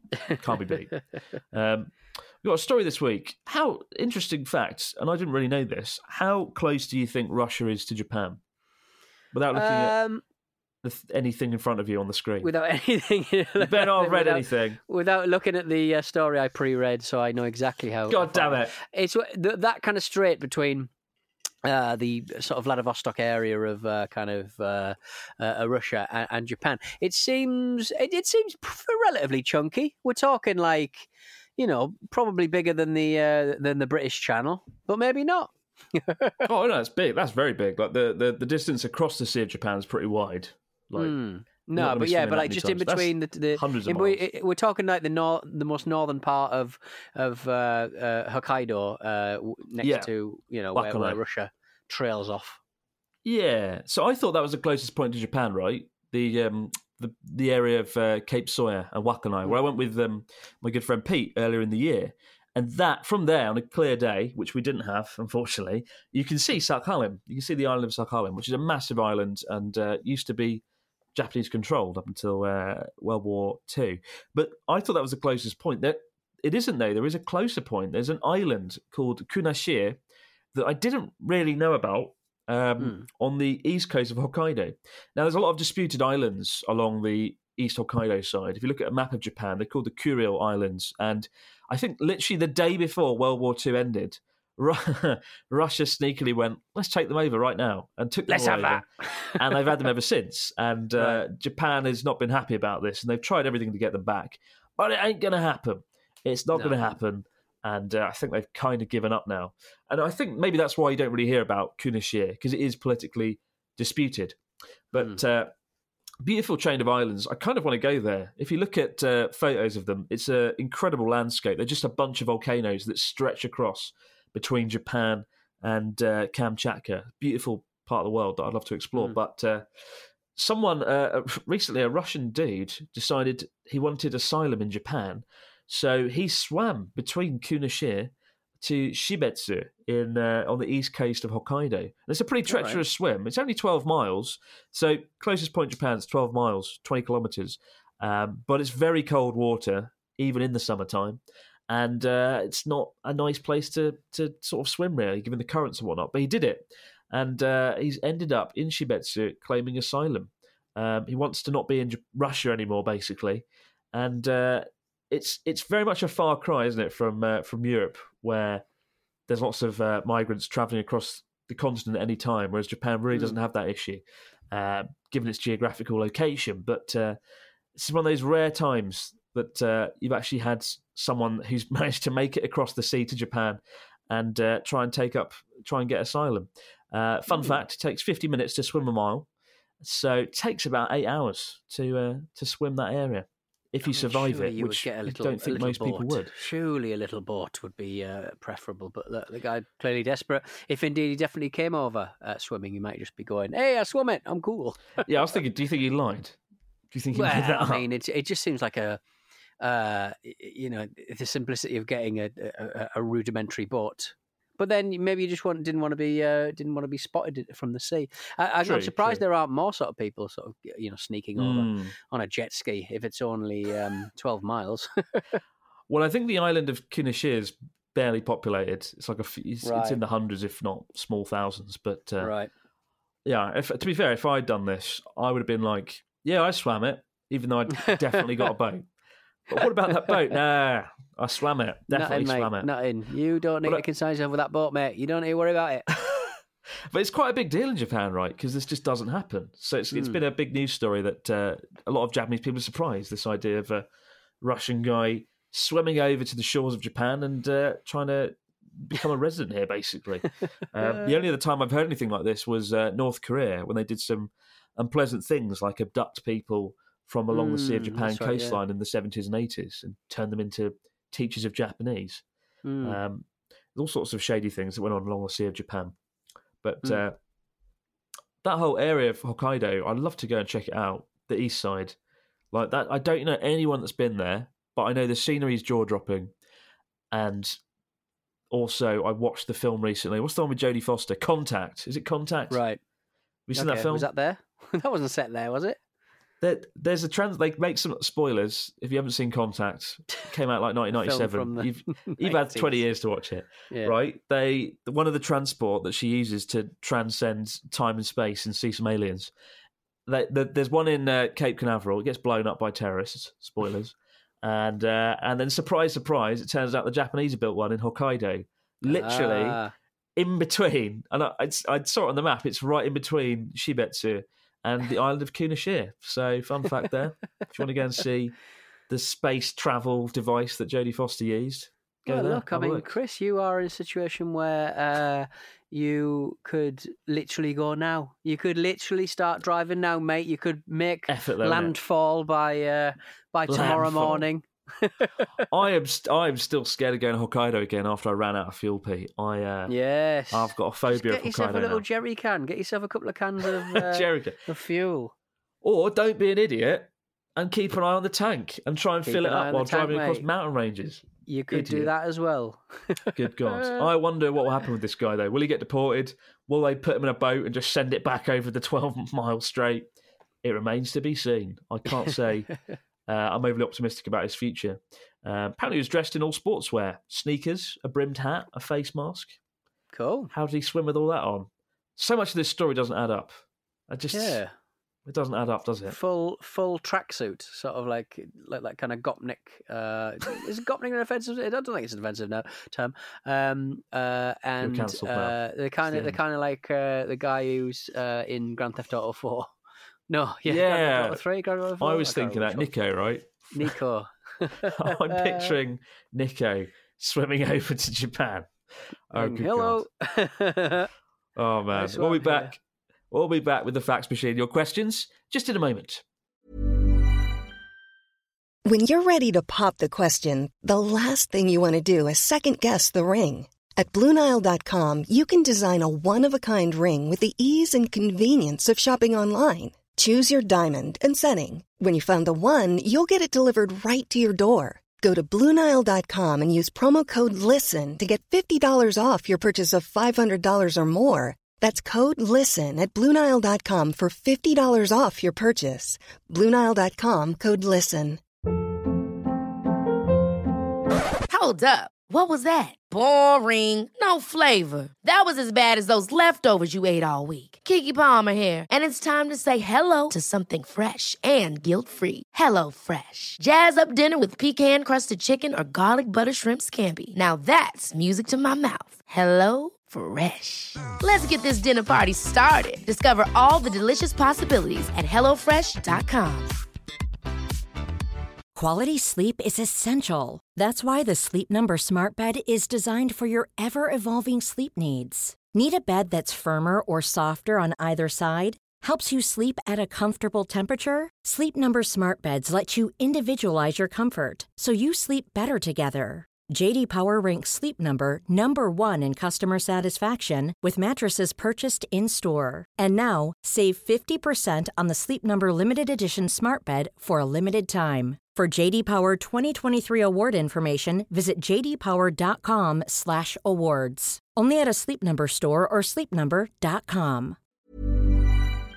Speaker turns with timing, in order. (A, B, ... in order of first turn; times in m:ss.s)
0:00.3-0:08.4 A
0:09.3-0:10.0 A
0:09.5-0:10.2 B
0:10.8-0:12.5 A
0:12.4-0:20.9 B
0:13.6-0:14.8 A
0:18.1-0:18.8 A
0:21.6-0:36.5 B
0:36.4-0:41.2 A
0:41.0-0:52.6 B
0:41.8-0:44.2 A
0:49.8-0:50.1 A
0:50.8-0:51.2 A
0:53.2-1:10.6 A
1:11.2-1:20.0 A
1:20.5-1:38.8 A
1:38.3-1:39.4 B
1:39.4-1:54.4 A
1:40.9-1:41.2 B
1:54.9-1:55.5 A
1:56.2-2:09.6 A
2:10.4-2:48.6 A
2:22.5-2:22.8 B
2:49.3-2:57.2 A
2:57.8-3:09.3 A
3:09.8-3:16.3 A
3:13.9-3:25.1 B
3:25.0-3:26.4 A
3:26.9-3:27.8 A
3:27.1-3:29.0 B
3:29.6-3:45.4 B
3:38.6-3:39.2 A
3:41.4-3:41.9 A
3:45.9-3:52.3 A
3:49.6-3:50.0 B
3:52.2-3:52.5 B
3:53.3-3:58.8 A
3:59.5-4:02.7 A
4:01.9-4:05.9 B
4:05.9-4:06.4 A
4:06.9-4:13.9 A
4:09.9-4:10.2 B
4:14.4-4:32.2 A
4:20.8-4:21.1 B
4:27.3-4:28.6 B
4:32.6-4:33.0 B
4:32.8-4:36.0 A
4:36.6-4:37.2 A
4:38.4-4:42.0 A
4:42.5-4:46.3 A
4:47.1-4:47.6 A
4:48.5-4:52.6 A
4:52.5-4:52.8 B
4:53.5-4:54.1 A
4:53.5-4:55.8 B
4:56.4-5:09.3 A
5:00.9-5:02.8 B
5:03.7-5:04.0 B
5:10.1-5:19.6 A
5:18.9-5:19.7 B
5:20.2-5:28.4 A
5:28.9-5:33.0 A
5:32.1-5:45.4 B
5:41.1-5:41.7 A
5:43.5-5:44.3 A
5:45.5-5:49.8 A
5:49.7-5:55.1 B
5:50.3-5:51.8 A
5:53.6-5:54.4 A
5:55.6-6:01.9 A
5:59.1-6:00.3 B
6:01.3-6:03.9 B
6:03.1-6:09.9 A
6:10.4-6:12.5 A
6:13.1-6:19.4 A
6:19.9-6:20.3 B
6:20.3-6:24.4 A
6:24.1-6:24.5 B
6:25.1-6:26.0 A
6:25.9-6:39.5 B
6:34.6-6:36.2 A
6:40.1-6:42.7 B
6:40.5-6:41.2 A
6:41.8-6:43.7 A
6:43.5-6:45.6 B
6:44.7-6:48.5 A
6:49.1-6:49.8 A
6:49.2-6:50.9 B
6:51.4-6:52.6 A
6:51.7-6:52.5 B
6:53.1-6:56.0 A
6:58.7-7:28.2 C
7:31.3-7:56.5 D
7:58.6-8:37.4 E